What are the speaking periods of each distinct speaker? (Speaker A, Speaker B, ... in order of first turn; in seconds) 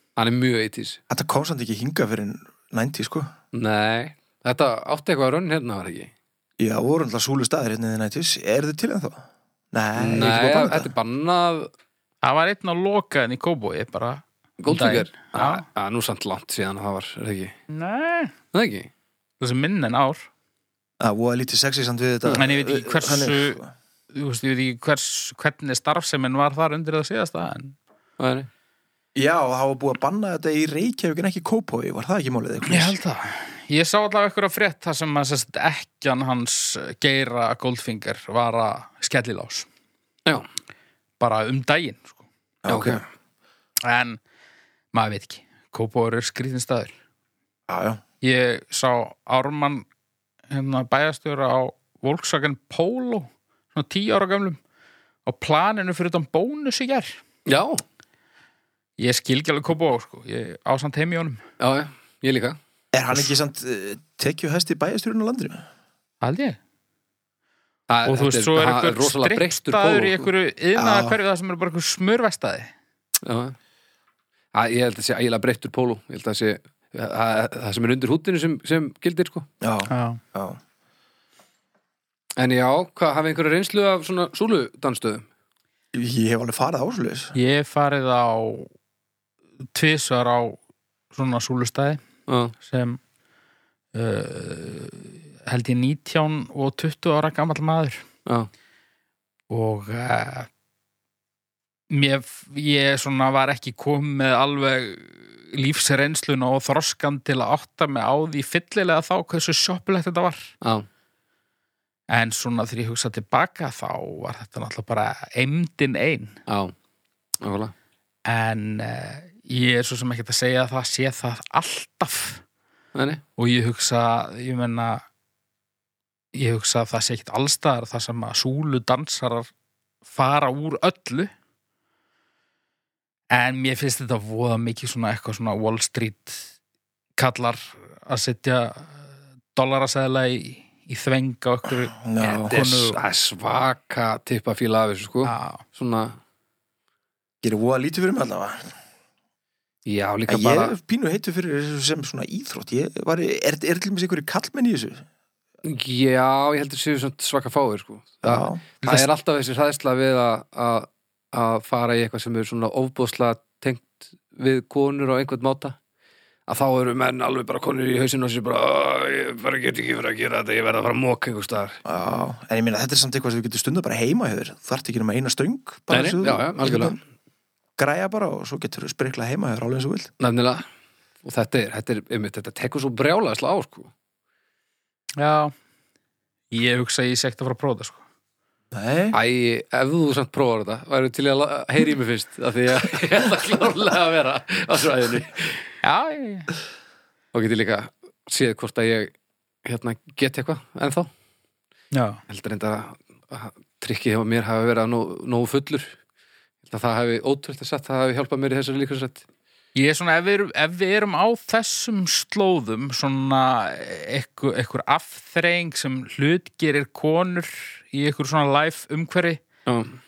Speaker A: 0.1-1.0, 3.5-6.1, 10.0-11.7, 14.6-17.5, 18.5-18.9, 28.2-28.5, 42.7-43.0, 57.5-57.8, 61.6-62.6, 67.9-70.3, 73.2-73.6, 74.5-79.5, 82.4-85.2, 92.3-92.5, 110.6-110.9, 116.5-116.7, 117.4-117.7, 122.9-123.2, 142.2-146.2, 149.9-150.7, 155.6-165.8, 166.5-171.8, 175.9-177.0, 180.2-180.6, 181.2-183.9, 189.1-195.7, 197.3-199.1, 199.6-201.1, 202.3-205.9, 206.6-209.2, 219.7-220.0
Speaker B: 1.1-3.3, 6.6-10.9, 21.0-23.7, 29.1-33.0, 42.6-43.0, 47.7-48.0, 62.9-65.6, 70.8-71.2, 79.6-80.6, 85.9-87.3, 141.9-142.5, 147.4-148.7, 150.3-155.1, 158.2-158.6, 171.8-177.0, 177.8-180.1, 188.7-189.2
Speaker C: 12.2-15.6, 17.7-18.3, 19.4-20.3, 22.4-23.6, 24.1-27.8, 32.7-39.7, 41.2-42.2, 43.8-44.2, 44.9-46.9, 48.2-49.9, 50.5-54.6, 55.2-57.2, 59.0-61.4, 66.2-66.6, 68.1-72.7, 79.9-80.2, 87.3-88.7, 89.7-90.6, 91.1-92.0, 92.6-93.0, 93.9-98.0, 99.5-100.5, 101.9-110.5, 112.1-116.4, 118.2-122.4, 123.4-125.0, 126.3-129.5, 130.1-131.3, 133.3-136.4, 137.2-141.9, 142.5-143.0, 145.2-145.6, 158.8-159.1, 185.2-185.5, 186.5-188.0, 195.8-196.5, 201.9-202.2, 209.7-219.4